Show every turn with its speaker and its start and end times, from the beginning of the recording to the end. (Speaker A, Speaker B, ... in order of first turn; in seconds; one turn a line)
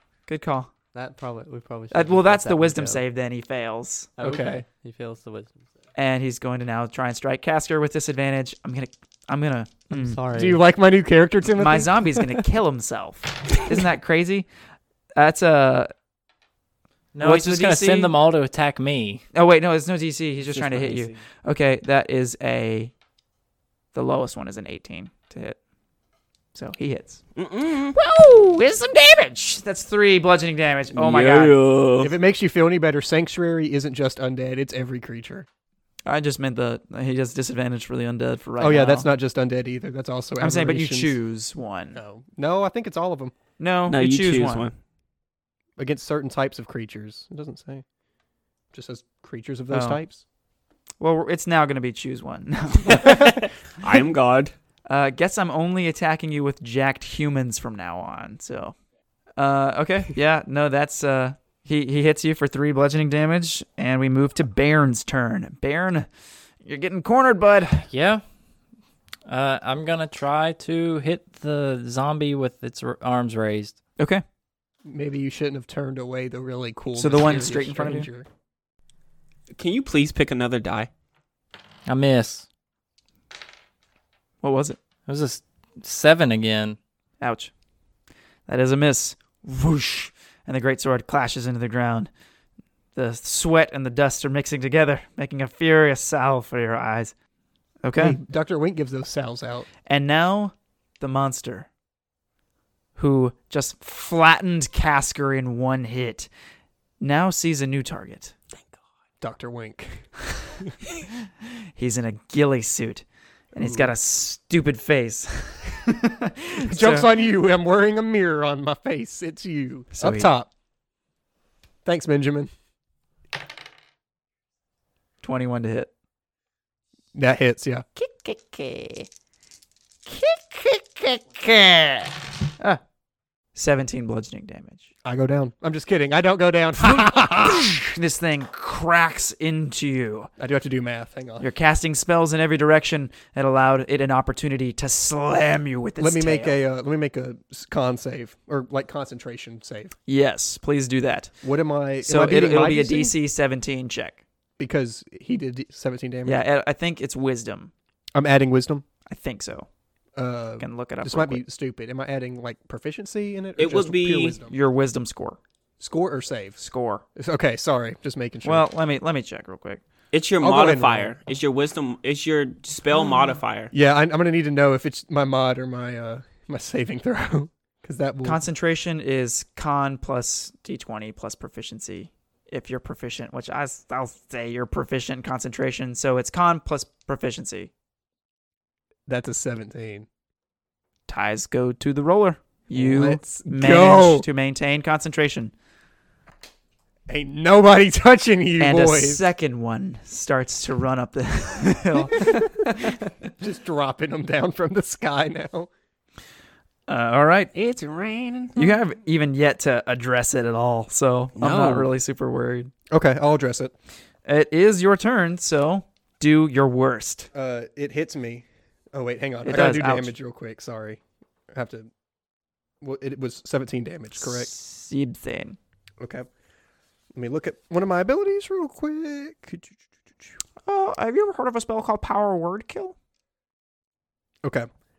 Speaker A: 0.3-0.7
Speaker B: 0.9-3.0
Speaker A: 1.9-4.1
Speaker B: 4.2-5.7
Speaker C: 4.2-4.6
Speaker A: 5.9-10.2
Speaker B: 9.9-10.6
Speaker C: 10.3-11.9
Speaker A: 11.6-14.5
Speaker A: 15.2-15.9
Speaker D: 17.1-19.2
Speaker A: 17.2-18.1
Speaker A: 19.3-22.9
Speaker E: 20.5-21.1
Speaker A: 23.9-25.6
Speaker A: 26.5-27.2
Speaker E: 27.4-27.9
Speaker A: 27.9-31.6
Speaker E: 30.9-32.1
Speaker C: 32.0-35.5
Speaker A: 36.0-39.1
Speaker C: 38.6-41.2
Speaker A: 40.4-42.0
Speaker C: 41.9-43.3
Speaker A: 43.6-44.7
Speaker E: 43.9-44.7
Speaker C: 45.8-47.8
Speaker C: 48.7-50.2
Speaker A: 49.7-50.0
Speaker A: 51.0-53.2
Speaker E: 52.9-54.5
Speaker A: 54.9-58.7
Speaker A: 59.4-66.1
Speaker A: 66.6-67.9
Speaker D: 67.9-68.2
Speaker D: 69.2-73.8
Speaker C: 74.8-78.2
Speaker A: 77.0-78.1
Speaker E: 79.5-80.9
Speaker D: 81.9-82.5
Speaker A: 84.4-84.8
Speaker D: 85.0-86.8
Speaker A: 87.2-87.5
Speaker A: 88.5-92.1
Speaker A: 92.9-97.1
Speaker A: 97.8-98.2
Speaker C: 98.0-99.7
Speaker A: 99.8-101.7
Speaker A: 103.0-106.3
Speaker A: 107.0-108.3
Speaker C: 109.2-110.1
Speaker A: 111.8-117.1
Speaker C: 113.5-113.9
Speaker C: 116.6-120.5
Speaker A: 119.9-120.3
Speaker C: 121.8-122.5
Speaker A: 125.2-125.9
Speaker C: 127.1-127.8
Speaker A: 128.0-129.1
Speaker A: 130.1-132.8
Speaker A: 133.5-134.8
Speaker C: 135.0-137.7
Speaker A: 136.8-140.3
Speaker C: 140.4-141.5
Speaker A: 141.4-146.6
Speaker C: 146.0-149.9
Speaker A: 150.1-151.3
Speaker C: 151.4-153.1
Speaker A: 152.0-154.2
Speaker C: 154.6-156.4
Speaker A: 156.2-157.7
Speaker C: 158.1-158.8
Speaker A: 159.1-159.7
Speaker C: 160.2-164.5
Speaker A: 160.6-161.4
Speaker E: 163.6-164.4
Speaker A: 164.5-165.4
Speaker C: 165.8-166.6
Speaker A: 166.6-167.0
Speaker C: 167.2-168.7
Speaker A: 168.4-169.8
Speaker E: 170.1-173.7
Speaker C: 170.4-171.1
Speaker C: 173.7-178.4
Speaker A: 178.2-187.7
Speaker C: 189.1-190.1
Speaker A: 191.1-195.5
Speaker C: 192.7-194.3
Speaker C: 197.1-199.3
Speaker A: 198.6-202.5
Speaker C: 202.0-202.5
Speaker C: 203.2-205.7
Speaker A: 206.9-207.5
Speaker E: 207.5-208.7
Speaker A: 208.6-212.7
Speaker E: 211.3-211.9
Speaker C: 212.9-213.7
Speaker A: 214.2-217.3
Speaker C: 217.3-221.0
Speaker A: 219.4-220.1
Speaker C: 221.5-221.9
Speaker C: 222.8-224.5
Speaker A: 224.2-225.6
Speaker C: 226.0-226.3
Speaker C: 227.1-229.8
Speaker A: 230.7-232.9
Speaker C: 234.4-234.7